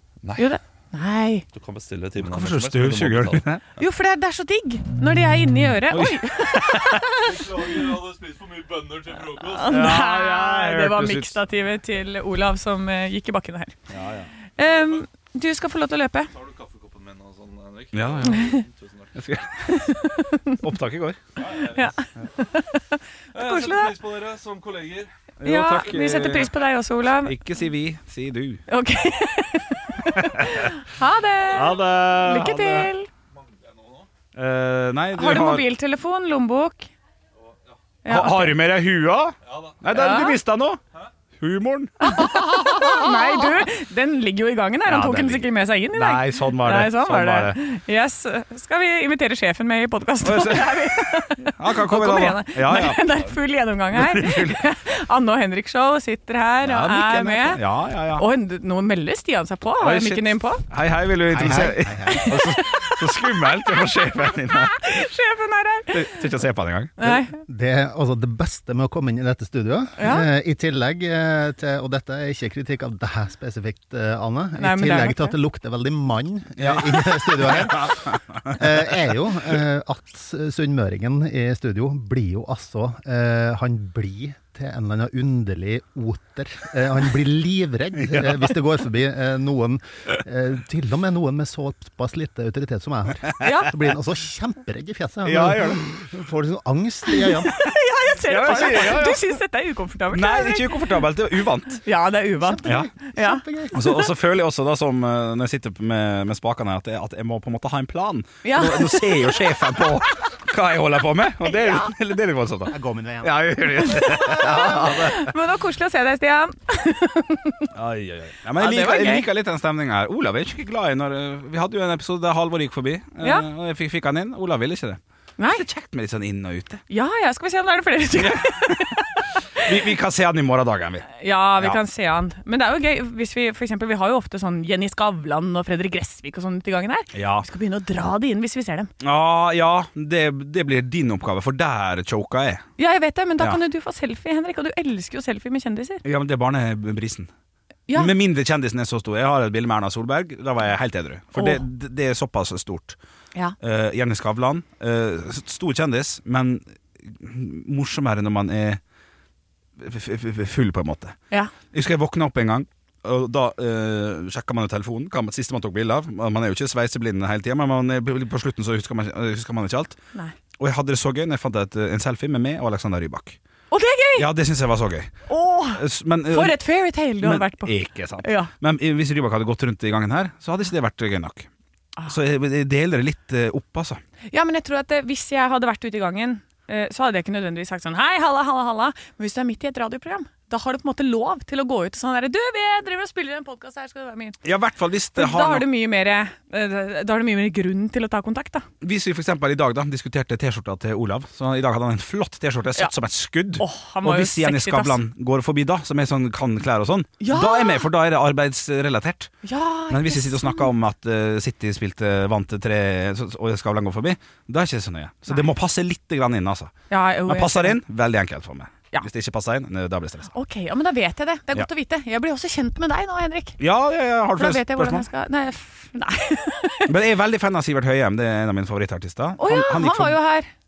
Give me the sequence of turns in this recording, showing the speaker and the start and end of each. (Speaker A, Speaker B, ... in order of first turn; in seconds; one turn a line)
Speaker A: 0.2-0.5
Speaker B: 0.4-1.4
Speaker A: 1.5-3.5
Speaker C: 2.2-3.6
Speaker B: 3.8-7.2
Speaker C: 5.9-7.0
Speaker A: 7.2-9.9
Speaker B: 9.4-13.8
Speaker C: 9.7-11.4
Speaker C: 13.9-14.3
Speaker B: 14.6-16.3
Speaker A: 14.6-15.0
Speaker A: 16.3-19.1
Speaker C: 17.9-18.5
Speaker B: 18.3-18.6
Speaker C: 19.1-19.8
Speaker B: 19.6-20.6
Speaker C: 20.6-21.2
Speaker A: 21.4-21.9
Speaker B: 21.7-23.9
Speaker A: 23.3-25.1
Speaker C: 25.4-26.5
Speaker B: 25.4-27.4
Speaker C: 27.2-28.6
Speaker B: 28.7-33.1
Speaker C: 30.2-30.7
Speaker C: 31.5-32.9
Speaker A: 33.4-34.1
Speaker C: 34.3-35.7
Speaker B: 35.1-36.9
Speaker B: 38.0-38.6
Speaker C: 38.0-40.8
Speaker A: 39.5-39.8
Speaker B: 39.9-40.4
Speaker C: 41.4-43.1
Speaker B: 42.0-57.6
Speaker C: 44.8-47.6
Speaker C: 50.2-53.2
Speaker C: 53.9-54.6
Speaker C: 56.6-58.2
Speaker B: 58.1-60.6
Speaker C: 59.8-65.0
Speaker D: 61.3-62.2
Speaker B: 62.0-63.1
Speaker B: 64.5-66.2
Speaker C: 65.9-67.2
Speaker B: 67.0-67.4
Speaker D: 67.5-78.0
Speaker B: 70.0-70.3
Speaker B: 74.6-75.3
Speaker C: 76.6-78.8
Speaker D: 78.5-97.6
Speaker C: 88.0-88.5
Speaker B: 93.4-93.7
Speaker C: 95.2-96.2
Speaker B: 97.2-101.1
Speaker C: 98.2-99.3
Speaker C: 100.1-101.8
Speaker B: 101.7-104.1
Speaker D: 102.4-103.9
Speaker C: 103.7-115.3
Speaker B: 108.4-109.7
Speaker D: 112.7-113.7
Speaker B: 113.7-117.7
Speaker D: 114.3-114.8
Speaker C: 117.7-126.8
Speaker B: 118.5-119.3
Speaker B: 125.4-125.6
Speaker B: 126.9-129.7
Speaker C: 128.1-129.0
Speaker C: 129.6-131.8
Speaker B: 131.2-138.9
Speaker C: 137.1-137.4
Speaker C: 139.0-142.6
Speaker B: 142.8-146.0
Speaker C: 146.0-147.3
Speaker B: 147.9-148.1
Speaker C: 147.9-153.0
Speaker B: 151.3-151.6
Speaker C: 153.6-158.8
Speaker C: 159.8-161.2
Speaker C: 161.7-170.0
Speaker C: 170.6-173.4
Speaker B: 173.7-174.3
Speaker C: 174.1-175.2
Speaker B: 175.3-178.5
Speaker C: 175.7-176.6
Speaker C: 177.2-181.5
Speaker C: 182.1-184.0
Speaker B: 184.3-194.4
Speaker C: 194.4-195.7
Speaker B: 195.1-198.7
Speaker C: 198.8-209.3
Speaker B: 203.6-205.0
Speaker B: 207.2-207.9
Speaker B: 209.4-210.7
Speaker C: 209.9-216.7
Speaker B: 216.9-217.8
Speaker C: 217.2-220.3
Speaker B: 220.3-223.6
Speaker C: 223.6-225.0
Speaker B: 224.3-226.9
Speaker C: 226.9-230.2
Speaker B: 229.4-230.5